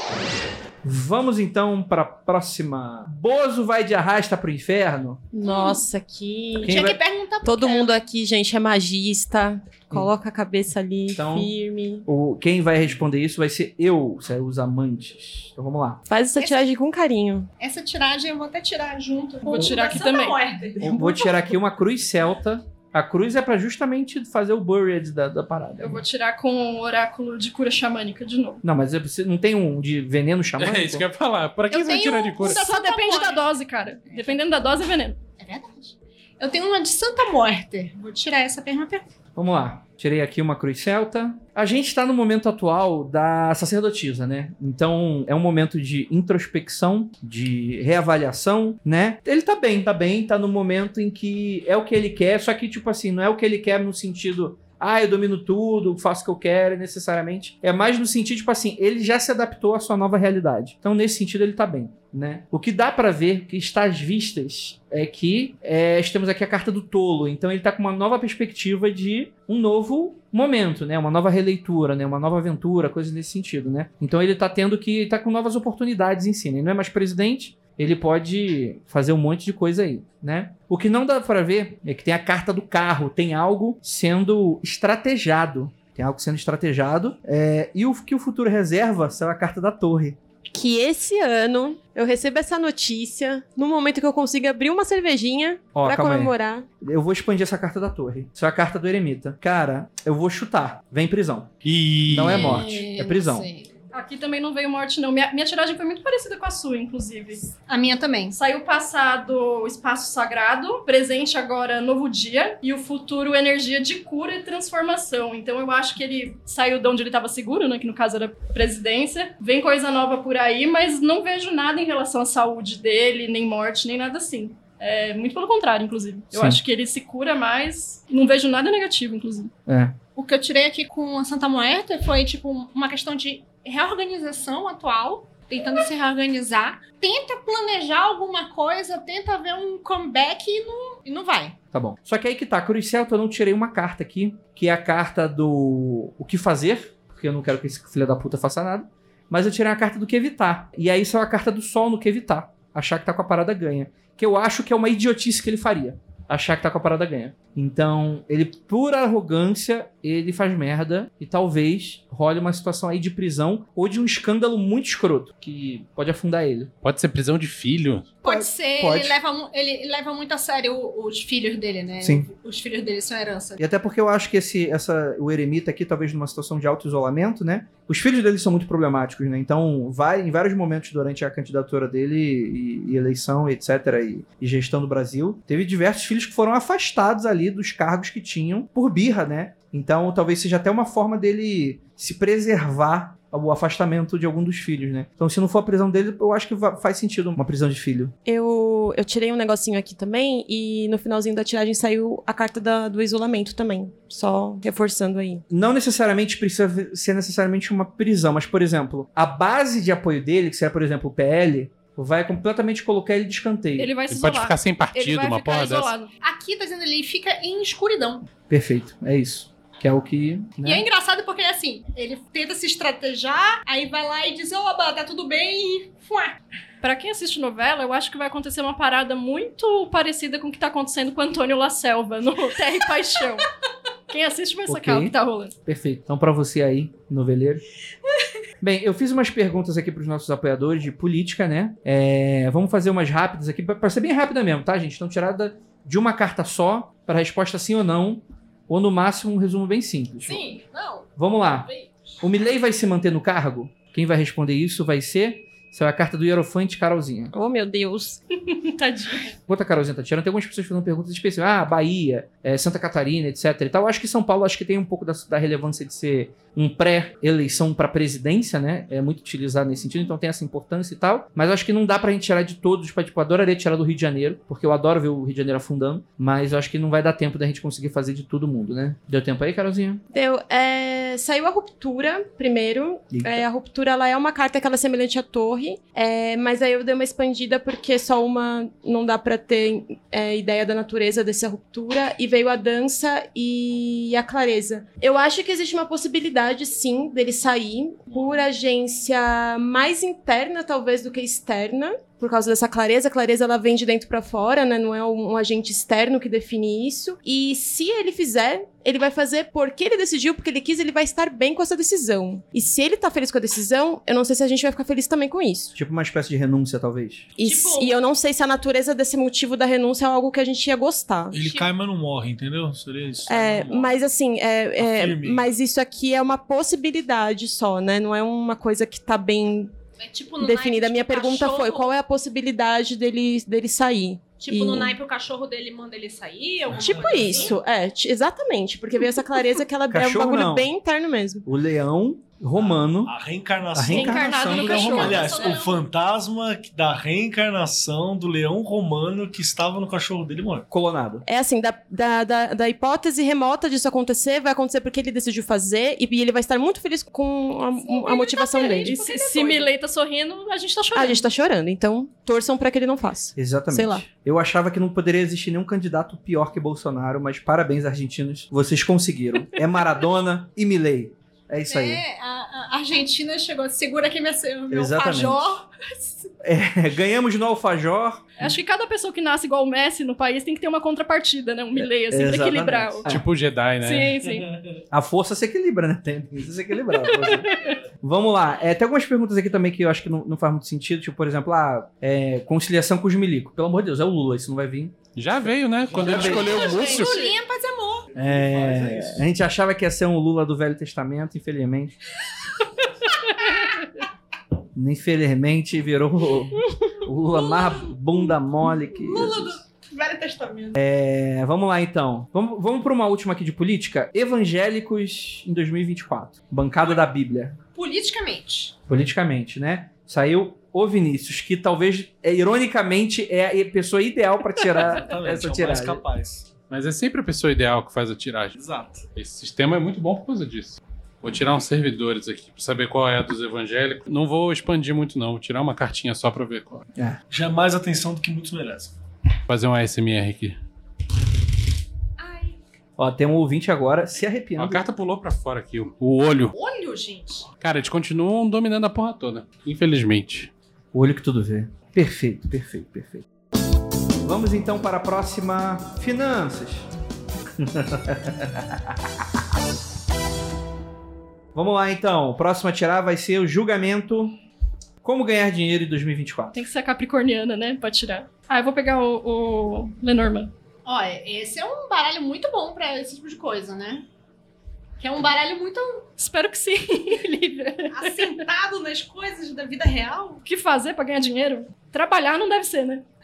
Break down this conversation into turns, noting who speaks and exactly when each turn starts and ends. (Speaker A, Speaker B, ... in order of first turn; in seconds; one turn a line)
Speaker A: 0.8-5.2
Speaker B: 5.3-6.8
Speaker C: 5.4-5.8
Speaker A: 6.6-7.0
Speaker C: 6.6-8.0
Speaker B: 7.4-12.1
Speaker A: 11.1-11.5
Speaker A: 12.1-16.0
Speaker B: 16.1-17.5
Speaker C: 16.4-16.7
Speaker C: 17.6-21.4
Speaker D: 19.4-20.4
Speaker A: 20.8-26.0
Speaker D: 25.8-28.6
Speaker A: 28.6-31.1
Speaker E: 30.6-32.6
Speaker C: 31.7-33.5
Speaker D: 32.4-35.2
Speaker C: 34.1-34.4
Speaker C: 35.4-39.0
Speaker A: 39.4-90.2
Speaker B: 90.5-96.7
Speaker A: 95.8-103.5
Speaker F: 101.6-102.6
Speaker C: 102.2-103.7
Speaker D: 103.9-107.5
Speaker C: 107.7-108.4
Speaker D: 108.3-129.5
Speaker A: 126.3-126.6
Speaker A: 129.7-130.0
Speaker C: 130.2-141.6
Speaker A: 141.7-166.7
Speaker E: 166.8-168.2
Speaker C: 168.2-173.6
Speaker A: 168.2-169.2
Speaker A: 172.0-172.3
Speaker A: 173.6-198.1
Speaker B: 198.3-205.4
Speaker A: 205.5-213.9
Speaker D: 213.8-216.1
Speaker E: 214.1-215.9
Speaker C: 216.2-218.3
Speaker A: 218.5-220.8
Speaker C: 220.6-226.4
Speaker D: 226.8-233.5
Speaker D: 234.1-235.5
Speaker A: 234.7-237.6
Speaker A: 238.6-250.4
Speaker C: 250.3-251.9
Speaker A: 251.2-251.7
Speaker A: 252.2-257.3
Speaker B: 257.3-258.2
Speaker D: 258.5-259.3
Speaker A: 259.5-280.0
Speaker B: 280.1-315.8
Speaker A: 283.1-283.5
Speaker F: 298.1-298.4
Speaker A: 315.8-317.3
Speaker B: 317.4-321.4
Speaker D: 317.4-317.9
Speaker F: 321.3-324.0
Speaker C: 321.4-321.6
Speaker B: 323.3-329.7
Speaker F: 324.8-325.5
Speaker C: 330.0-331.9
Speaker B: 330.4-334.9
Speaker C: 334.4-337.6
Speaker F: 336.7-337.5
Speaker B: 336.7-341.5
Speaker A: 339.9-340.7
Speaker A: 341.4-343.1
Speaker F: 342.6-350.7
Speaker A: 343.7-344.9
Speaker D: 343.9-345.6
Speaker C: 344.6-345.8
Speaker A: 350.7-351.2
Speaker B: 351.2-359.6
Speaker D: 357.9-361.2
Speaker C: 358.2-359.3
Speaker B: 360.9-364.1
Speaker A: 363.4-372.0
Speaker C: 371.7-376.3
Speaker A: 374.7-375.5
Speaker A: 376.4-378.5
Speaker D: 378.4-383.1
Speaker A: 382.1-383.2
Speaker E: 383.1-384.2
Speaker D: 383.8-384.5
Speaker A: 384.9-387.5
Speaker D: 387.1-387.8
Speaker A: 388.0-395.0
Speaker E: 395.2-397.1
Speaker F: 395.9-396.4
Speaker A: 395.9-396.6
Speaker C: 396.2-398.1
Speaker D: 396.6-397.3
Speaker A: 398.2-402.0
Speaker F: 398.2-399.2
Speaker A: 404.8-409.6
Speaker C: 407.3-408.2
Speaker C: 408.7-410.8
Speaker A: 410.8-417.6
Speaker C: 417.8-418.7
Speaker A: 418.9-426.0
Speaker F: 424.9-426.5
Speaker E: 426.7-428.6
Speaker F: 428.6-429.0
Speaker E: 429.1-436.8
Speaker F: 437.3-438.9
Speaker E: 439.5-440.6
Speaker C: 442.2-442.6
Speaker A: 443.0-444.9
Speaker E: 444.6-446.5
Speaker C: 446.5-447.5
Speaker E: 447.6-450.5
Speaker A: 450.9-453.2
Speaker A: 454.2-456.9
Speaker A: 457.6-459.1
Speaker A: 461.6-464.4
Speaker A: 465.0-466.7
Speaker D: 466.5-470.5
Speaker C: 470.9-474.1
Speaker C: 475.0-476.0
Speaker D: 476.2-478.3
Speaker C: 477.9-480.4
Speaker D: 480.4-483.0